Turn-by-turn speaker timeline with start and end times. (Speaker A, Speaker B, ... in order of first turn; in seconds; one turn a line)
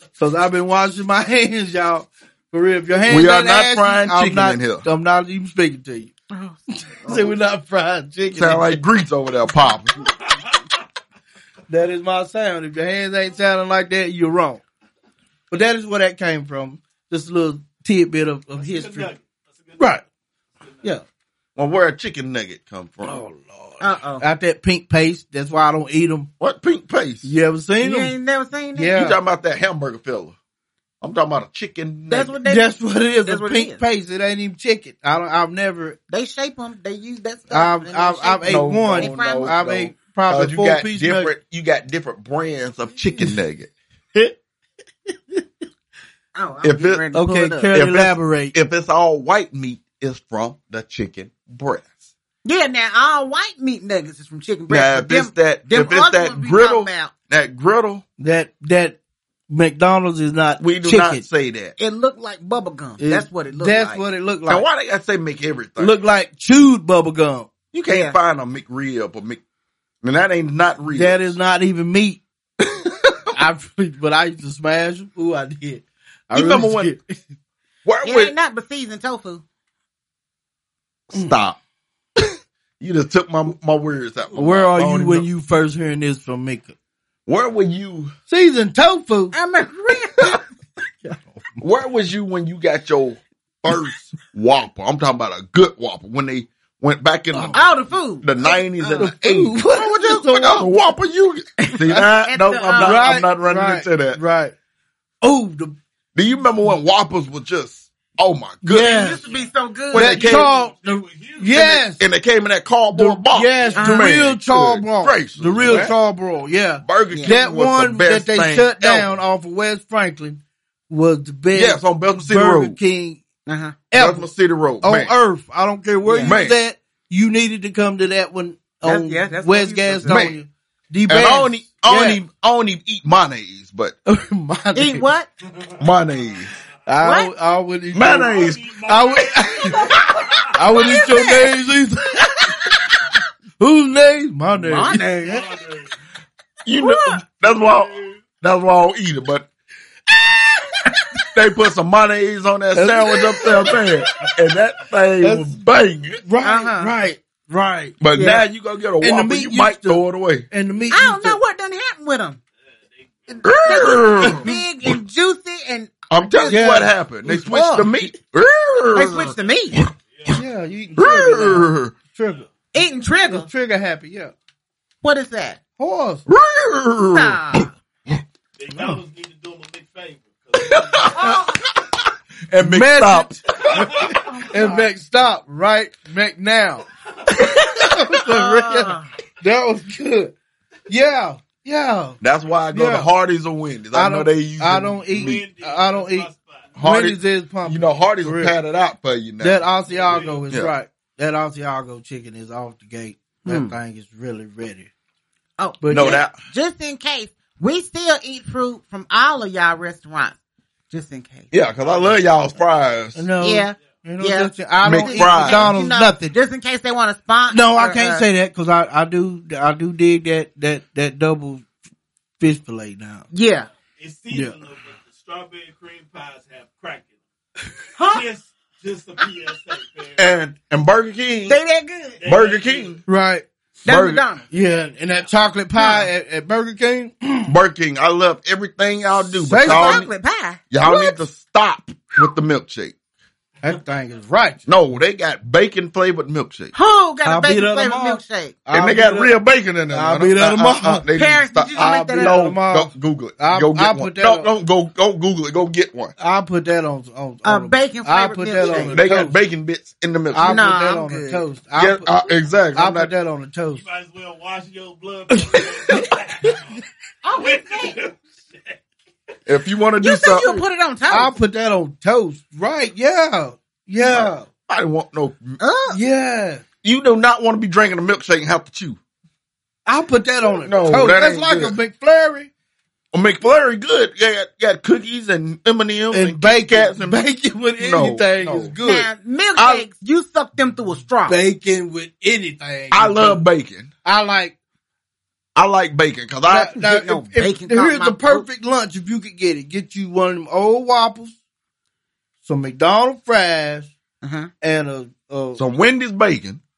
Speaker A: 0.2-6.1
Speaker B: 3.1-4.9
Speaker C: 6.3-7.3
Speaker A: 6.9-8.8
Speaker B: 8.3-10.0
Speaker D: 10.1-10.7
Speaker A: 11.7-14.6
Speaker A: 15.5-19.1
Speaker D: 18.6-20.0
Speaker A: 19.8-20.0
Speaker D: 20.6-20.9
Speaker B: 21.6-23.2
Speaker A: 23.0-26.3
Speaker C: 23.8-24.2
Speaker B: 26.4-27.3
Speaker A: 27.2-28.1
Speaker C: 27.8-29.0
Speaker A: 28.8-29.2
Speaker B: 28.9-30.4
Speaker B: 31.0-32.4
Speaker C: 32.1-32.7
Speaker A: 32.4-36.0
Speaker C: 33.3-33.8
Speaker C: 36.1-39.6
Speaker A: 37.5-41.3
Speaker B: 38.4-43.7
Speaker A: 45.1-45.4
Speaker C: 46.4-47.7
Speaker B: 46.6-47.0
Speaker A: 47.1-48.5
Speaker B: 47.7-52.1
Speaker C: 52.4-57.1
Speaker B: 54.7-58.0
Speaker A: 58.2-59.0
Speaker A: 59.5-61.3
Speaker B: 60.6-61.7
Speaker C: 61.8-64.0
Speaker A: 63.0-64.7
Speaker B: 64.5-66.0
Speaker A: 65.8-67.5
Speaker B: 67.7-69.4
Speaker C: 67.9-68.2
Speaker B: 70.0-71.3
Speaker A: 70.9-72.2
Speaker B: 72.6-73.2
Speaker A: 73.3-77.2
Speaker B: 76.3-76.9
Speaker B: 77.8-78.3
Speaker C: 78.0-79.4
Speaker B: 81.1-81.6
Speaker B: 82.8-85.3
Speaker A: 84.3-86.7
Speaker B: 87.3-88.1
Speaker A: 88.3-89.3
Speaker C: 89.3-90.4
Speaker A: 91.0-91.6
Speaker B: 91.6-97.7
Speaker A: 97.3-97.6
Speaker C: 97.5-99.1
Speaker B: 98.2-104.2
Speaker A: 98.9-100.7
Speaker C: 101.7-103.1
Speaker A: 102.7-104.5
Speaker A: 105.2-105.8
Speaker B: 106.1-109.2
Speaker A: 108.6-109.2
Speaker C: 108.8-110.3
Speaker D: 109.0-111.8
Speaker B: 109.9-110.5
Speaker A: 109.9-112.0
Speaker B: 111.6-116.0
Speaker A: 112.9-123.2
Speaker C: 113.8-114.1
Speaker B: 116.8-119.1
Speaker B: 121.5-122.8
Speaker C: 123.5-123.8
Speaker A: 123.9-124.3
Speaker B: 123.9-125.1
Speaker A: 124.8-132.2
Speaker C: 126.1-126.4
Speaker B: 126.2-126.6
Speaker C: 128.8-130.3
Speaker B: 130.1-130.3
Speaker B: 131.1-133.9
Speaker A: 134.1-135.1
Speaker C: 134.8-135.3
Speaker D: 135.6-136.3
Speaker B: 135.8-136.5
Speaker A: 136.9-139.9
Speaker C: 137.0-137.3
Speaker B: 137.9-138.6
Speaker D: 138.0-140.5
Speaker A: 140.5-142.7
Speaker C: 140.8-141.5
Speaker A: 143.6-145.1
Speaker C: 144.7-145.4
Speaker D: 144.8-145.9
Speaker B: 146.6-149.5
Speaker C: 146.8-147.1
Speaker D: 147.4-148.2
Speaker B: 151.3-156.2
Speaker A: 152.7-153.9
Speaker A: 155.2-155.5
Speaker A: 156.2-158.0
Speaker C: 156.4-156.9
Speaker B: 158.0-160.4
Speaker C: 158.1-158.4
Speaker A: 159.0-161.4
Speaker C: 160.9-162.4
Speaker D: 163.3-163.7
Speaker B: 163.4-164.6
Speaker C: 163.5-167.9
Speaker B: 166.1-169.9
Speaker A: 166.5-166.9
Speaker C: 168.9-169.8
Speaker D: 170.1-170.4
Speaker A: 170.3-172.5
Speaker B: 170.9-171.9
Speaker C: 172.7-173.5
Speaker A: 173.3-174.3
Speaker C: 175.0-175.6
Speaker A: 175.8-176.3
Speaker B: 176.3-178.2
Speaker C: 177.1-177.7
Speaker D: 178.6-181.5
Speaker B: 180.6-181.9
Speaker B: 182.5-184.0
Speaker A: 182.6-186.8
Speaker D: 183.7-184.3
Speaker C: 184.3-184.8
Speaker D: 187.3-187.6
Speaker A: 187.4-190.3
Speaker C: 188.3-189.1
Speaker A: 190.9-192.2
Speaker B: 192.2-195.4
Speaker A: 192.7-193.1
Speaker A: 193.9-198.5
Speaker D: 195.1-196.8
Speaker B: 196.8-199.6
Speaker A: 199.4-204.9
Speaker D: 199.9-200.4
Speaker C: 203.4-203.8
Speaker C: 205.6-210.4
Speaker A: 205.8-206.2
Speaker B: 205.9-206.3
Speaker C: 210.9-211.5
Speaker B: 211.5-213.3
Speaker D: 211.8-212.1
Speaker A: 213.1-216.3
Speaker C: 213.4-218.2
Speaker B: 214.8-215.8
Speaker A: 217.5-221.7
Speaker A: 222.4-223.3
Speaker C: 223.3-223.7
Speaker D: 223.7-227.2
Speaker C: 228.0-228.2
Speaker D: 228.0-230.3
Speaker B: 230.2-231.6
Speaker C: 231.5-232.2
Speaker D: 232.2-233.0
Speaker B: 232.2-233.0
Speaker A: 233.1-233.4
Speaker C: 233.8-234.4
Speaker B: 233.9-234.2
Speaker A: 234.5-237.5
Speaker C: 235.8-236.1
Speaker B: 237.5-240.1
Speaker A: 239.3-240.0
Speaker C: 239.6-241.2
Speaker B: 240.7-242.9
Speaker A: 243.6-244.6
Speaker B: 244.7-246.7
Speaker C: 246.7-248.6
Speaker A: 247.2-249.3
Speaker B: 248.7-256.1
Speaker A: 249.9-251.1
Speaker C: 251.1-252.6
Speaker A: 251.8-254.5
Speaker A: 256.2-259.4
Speaker C: 257.4-259.0
Speaker B: 258.7-260.6
Speaker A: 260.3-262.2
Speaker C: 260.4-261.4
Speaker B: 261.8-263.1
Speaker A: 262.7-263.8
Speaker D: 263.7-266.8
Speaker A: 265.5-266.0
Speaker C: 267.2-268.0
Speaker D: 267.4-268.8
Speaker B: 269.5-270.6
Speaker C: 270.0-271.4
Speaker A: 271.1-274.5
Speaker B: 274.1-275.6
Speaker C: 275.6-276.0
Speaker A: 275.9-276.6
Speaker B: 276.8-279.0
Speaker A: 279.9-282.5
Speaker B: 280.6-281.8
Speaker B: 283.1-287.2
Speaker A: 286.1-289.1
Speaker B: 287.8-288.8
Speaker C: 288.9-291.4
Speaker B: 289.6-289.9
Speaker A: 291.3-293.4
Speaker B: 292.9-293.9
Speaker A: 294.1-294.6
Speaker B: 295.6-296.8
Speaker A: 296.4-301.4
Speaker C: 296.8-298.4
Speaker A: 302.4-303.9
Speaker C: 304.2-304.5
Speaker A: 304.6-305.6
Speaker B: 305.6-306.6